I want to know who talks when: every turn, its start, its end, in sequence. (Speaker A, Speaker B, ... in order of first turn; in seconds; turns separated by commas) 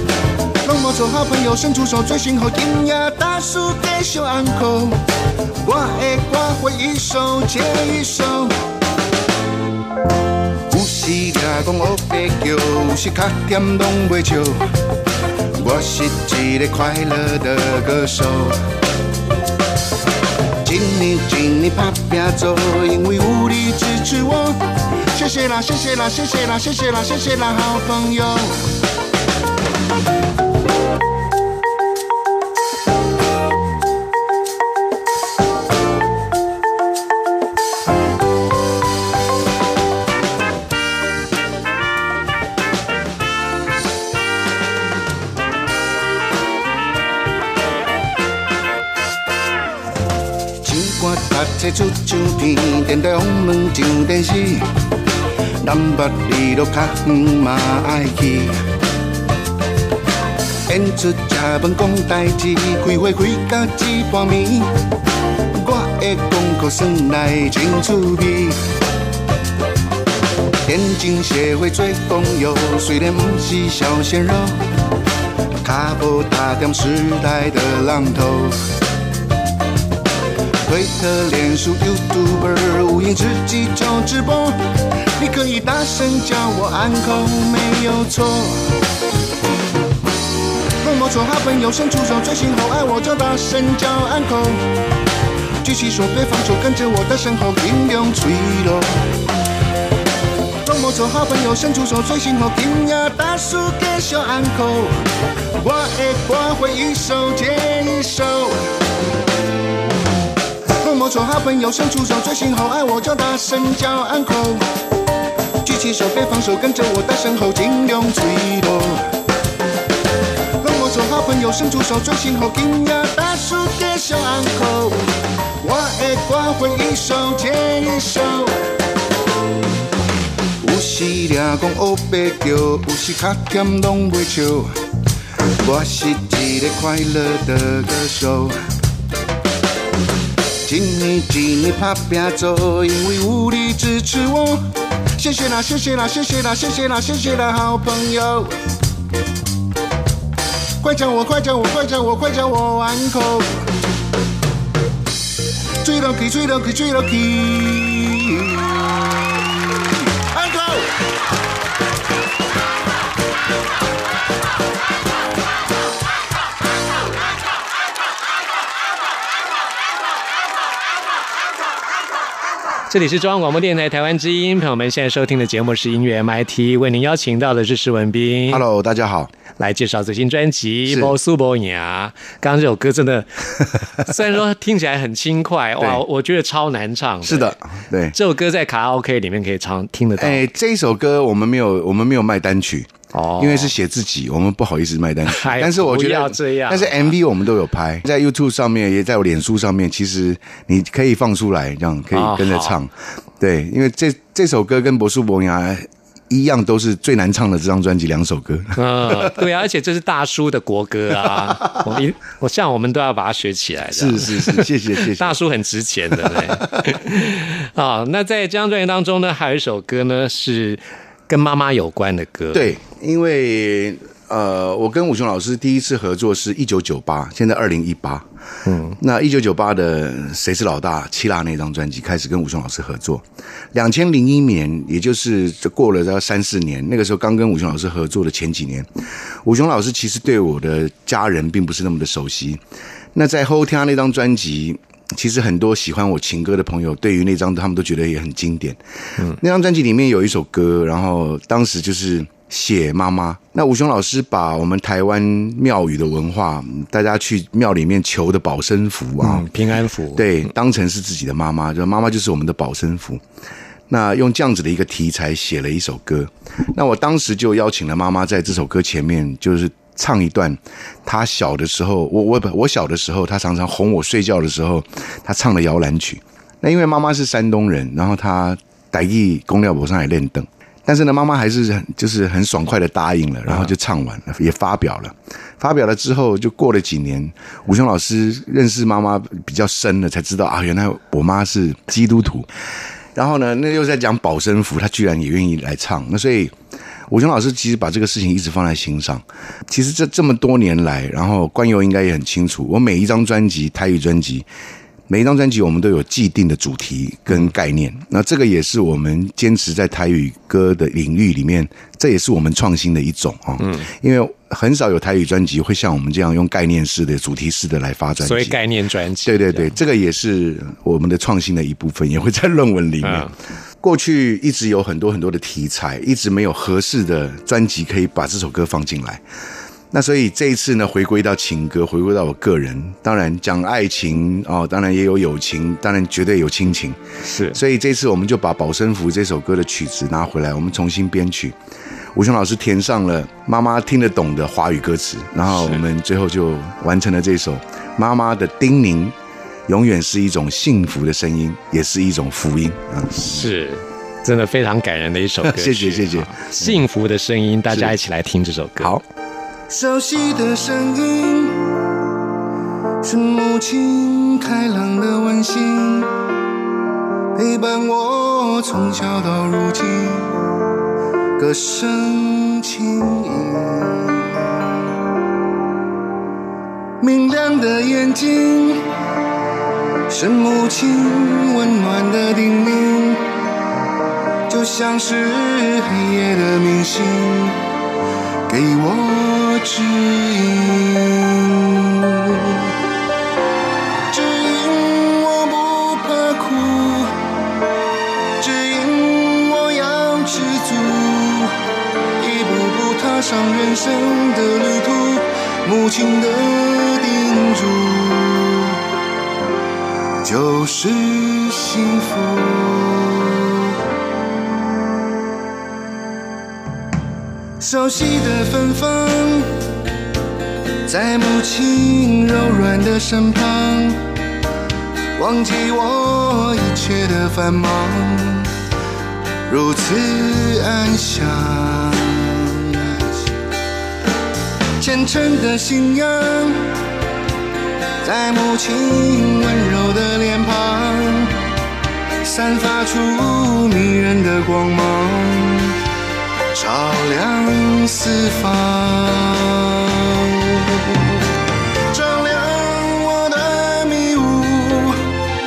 Speaker A: 0.7-5.0, Speaker A: 5.6-8.5, Speaker A: 10.7-14.6, Speaker A: 15.6-18.6, Speaker A: 20.6-24.6, Speaker A: 25.1-28.6, Speaker A: 50.6-54.6, Speaker A: 55.6-58.6, Speaker A: 60.7-64.7, Speaker A: 65.5-68.6, Speaker A: 70.7-74.6, Speaker A: 75.6-78.6, Speaker A: 80.7-84.6, Speaker A: 85.2-88.7, Speaker A: 90.8-94.6, Speaker A: 95.6-98.9, Speaker A: 100.7-104.9, Speaker A: 105.6-108.6, Speaker A: 110.8-114.7, Speaker A: 115.6-119.1, Speaker A: 120.6-125.0, Speaker A: 125.6-128.6, Speaker A: 130.6-134.7, Speaker A: 135.6-138.6, Speaker A: 140.7-144.7, Speaker A: 145.2-148.5, Speaker A: 150.8-153.5, Speaker A: 155.8-158.7, Speaker A: 160.3-160.9, Speaker B: 172.9-178.6, Speaker C: 178.5-179.3, Speaker B: 179.6-187.6, Speaker C: 180.9-181.1, Speaker C: 187.2-188.2, Speaker B: 188.1-190.5, Speaker C: 190.2-209.3, Speaker B: 193.1-193.7, Speaker B: 195.3-197.1, Speaker B: 202.1-202.8, Speaker B: 208.8-222.7, Speaker C: 213.9-215.4, Speaker C: 216.2-216.7, Speaker C: 222.5-228.3, Speaker B: 228.7-229.0, Speaker C: 229.0-238.9, Speaker C: 239.4-242.6, Speaker C: 243.1-248.8, Speaker C: 249.4-259.5, Speaker B: 259.2-260.3, Speaker C: 260.1-263.2, Speaker C: 263.9-292.5, Speaker C: 293.1-296.6, Speaker C: 297.1-304.5, Speaker C: 305.1-318.6, Speaker B: 313.6-313.9, Speaker B: 318.2-319.8, Speaker C: 319.2-323.3, Speaker B: 323.0-323.3, Speaker C: 323.8-329.2, Speaker C: 329.9-337.0, Speaker B: 337.2-337.6, Speaker C: 337.5-341.6, Speaker C: 342.1-349.2, Speaker B: 345.5-345.8, Speaker C: 349.7-353.5, Speaker B: 353.1-358.9, Speaker C: 355.4-356.8, Speaker C: 358.8-359.0, Speaker A: 359.7-361.6, Speaker A: 363.0-366.1, Speaker A: 367.4-370.3, Speaker A: 371.4-374.0, Speaker A: 377.0-378.8, Speaker A: 380.1-383.2, Speaker A: 384.5-387.6, Speaker A: 388.5-391.2, Speaker A: 394.1-397.1, Speaker A: 398.4-401.5, Speaker A: 402.2-408.7, Speaker A: 410.2-413.1, Speaker A: 417.6-419.4, Speaker A: 420.9-423.9, Speaker A: 425.2-428.4, Speaker A: 429.5-432.0, Speaker A: 434.8-436.5, Speaker A: 438.0-441.3, Speaker A: 442.3-445.4, Speaker A: 446.5-449.1, Speaker A: 451.9-455.0